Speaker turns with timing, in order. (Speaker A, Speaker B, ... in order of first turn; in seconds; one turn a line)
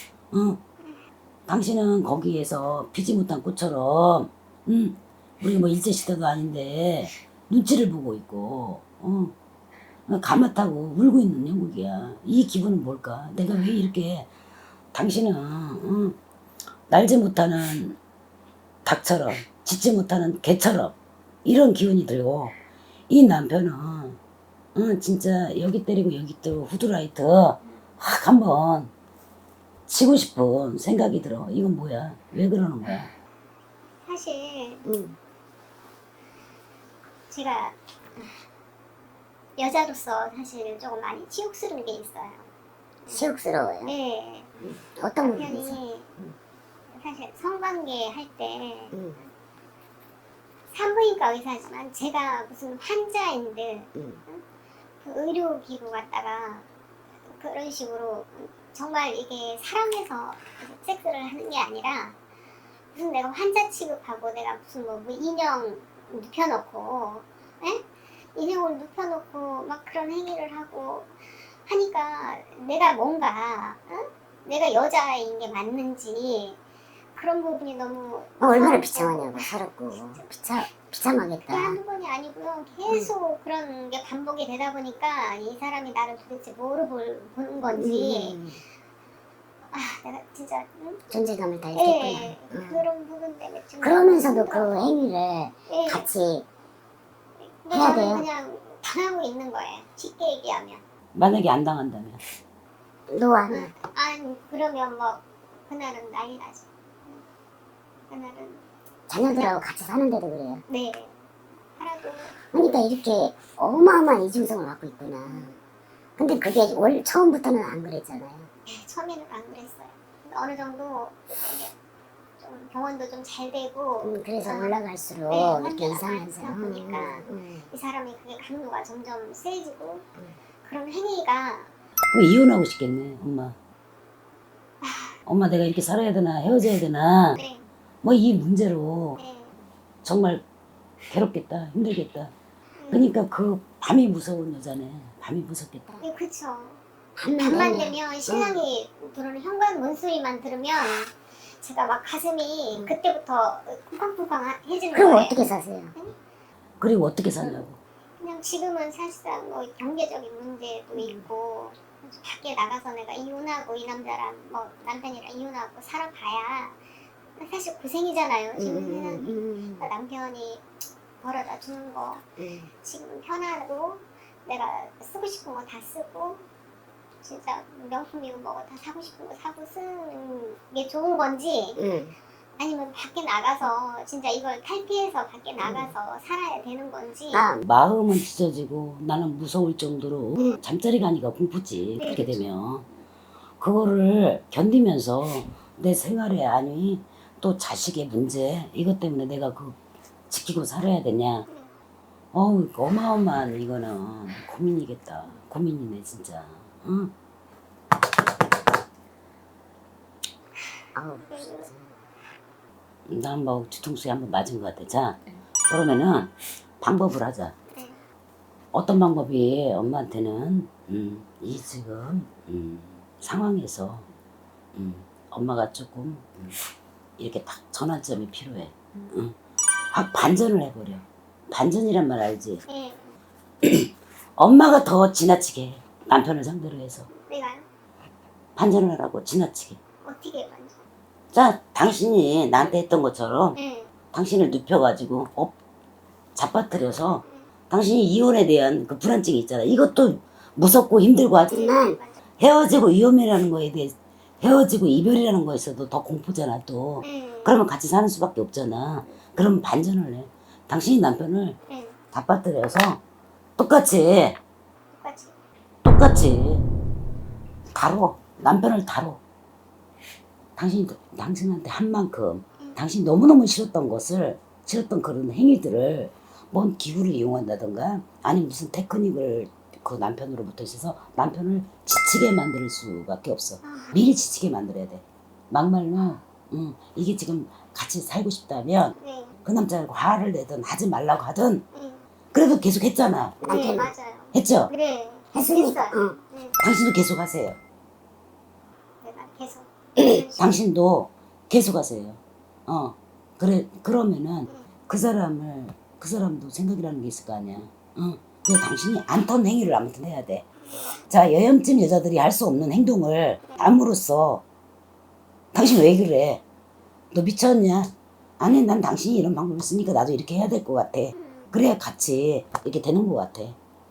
Speaker A: 0.3-0.6
Speaker A: 1.5-9.3
Speaker A: 10.1-14.3
Speaker A: 14.9-16.2
Speaker A: 16.9-18.0
Speaker A: 18.9-22.6
Speaker A: 23.1-24.2
Speaker A: 24.8-28.9
Speaker A: 29.9-33.1
Speaker B: 34.1-34.9
Speaker C: 34.9-35.2
Speaker B: 37.3-37.8
Speaker B: 39.6-42.5
Speaker B: 43.0-43.3
Speaker C: 43.1-43.9
Speaker B: 43.8-44.5
Speaker C: 44.6-46.3
Speaker B: 45.2-46.1
Speaker B: 46.9-49.0
Speaker C: 48.9-49.2
Speaker B: 50.7-54.4
Speaker C: 54.0-54.2
Speaker B: 55.0-56.7
Speaker B: 57.3-62.2
Speaker B: 62.9-67.8
Speaker B: 68.3-71.1
Speaker B: 71.7-76.6
Speaker B: 77.2-80.2
Speaker C: 78.4-81.8
Speaker B: 81.5-88.4
Speaker C: 87.7-88.6
Speaker B: 89.7-91.0
Speaker C: 91.1-92.8
Speaker B: 91.7-94.8
Speaker C: 93.8-96.5
Speaker B: 95.7-96.1
Speaker B: 97.4-100.8
Speaker C: 97.7-98.3
Speaker A: 101.2-102.2
Speaker C: 103.1-103.7
Speaker B: 103.5-107.2
Speaker B: 108.1-108.6
Speaker C: 109.1-110.6
Speaker B: 110.7-111.2
Speaker B: 111.8-112.5
Speaker C: 112.5-115.5
Speaker B: 115.3-115.6
Speaker C: 116.2-118.5
Speaker B: 118.7-121.7
Speaker B: 122.4-124.8
Speaker C: 124.0-127.7
Speaker B: 125.3-130.1
Speaker B: 130.6-131.7
Speaker A: 132.1-133.6
Speaker B: 134.8-135.2
Speaker A: 135.3-137.4
Speaker B: 137.3-137.7
Speaker A: 138.0-139.2
Speaker B: 139.2-139.5
Speaker A: 140.0-140.4
Speaker A: 141.1-142.3
Speaker B: 142.8-143.1
Speaker A: 142.9-145.9
Speaker B: 146.0-146.8
Speaker C: 147.2-148.6
Speaker B: 147.4-155.4
Speaker C: 154.9-155.9
Speaker A: 156.8-157.8
Speaker B: 158.2-166.8
Speaker C: 160.9-161.2
Speaker B: 167.4-169.3
Speaker C: 168.6-169.9
Speaker B: 169.8-170.7
Speaker B: 171.2-172.2
Speaker C: 172.4-172.7
Speaker B: 172.8-176.4
Speaker B: 177.2-181.8
Speaker C: 181.8-182.2
Speaker B: 182.6-187.5
Speaker C: 185.6-185.9
Speaker C: 187.3-187.6
Speaker A: 187.6-192.9
Speaker B: 192.0-192.4
Speaker C: 192.1-192.4
Speaker A: 193.6-199.8
Speaker A: 200.3-201.5
Speaker A: 202.3-207.1
Speaker C: 210.9-211.9
Speaker B: 211.3-211.7
Speaker A: 213.1-217.6
Speaker B: 217.7-218.0
Speaker A: 218.7-224.1
Speaker A: 224.8-226.6
Speaker A: 227.2-229.4
Speaker A: 229.9-232.6
Speaker B: 232.7-233.2
Speaker A: 233.6-237.1
Speaker B: 237.1-237.7
Speaker A: 238.6-239.8
Speaker B: 240.0-240.8
Speaker A: 241.3-243.6
Speaker B: 243.6-243.9
Speaker A: 244.1-245.6
Speaker A: 246.3-251.7
Speaker C: 251.5-252.0
Speaker B: 251.5-252.2
Speaker A: 252.4-261.6
Speaker B: 257.0-257.6
Speaker B: 261.7-262.0
Speaker A: 262.1-263.0
Speaker A: 263.6-264.4
Speaker B: 264.9-265.3
Speaker A: 265.8-266.6
Speaker A: 267.7-269.2
Speaker A: 270.6-291.6
Speaker B: 283.6-284.1
Speaker B: 289.0-289.4
Speaker B: 291.7-292.1
Speaker A: 292.3-293.4
Speaker C: 293.4-293.9
Speaker B: 293.5-296.6
Speaker A: 294.3-294.7
Speaker C: 295.3-296.2
Speaker A: 296.6-297.6
Speaker B: 299.0-300.6
Speaker C: 300.0-300.2
Speaker A: 300.4-310.5
Speaker B: 310.7-311.0
Speaker A: 311.1-314.4
Speaker A: 315.5-316.4
Speaker A: 317.1-323.6
Speaker B: 321.2-321.5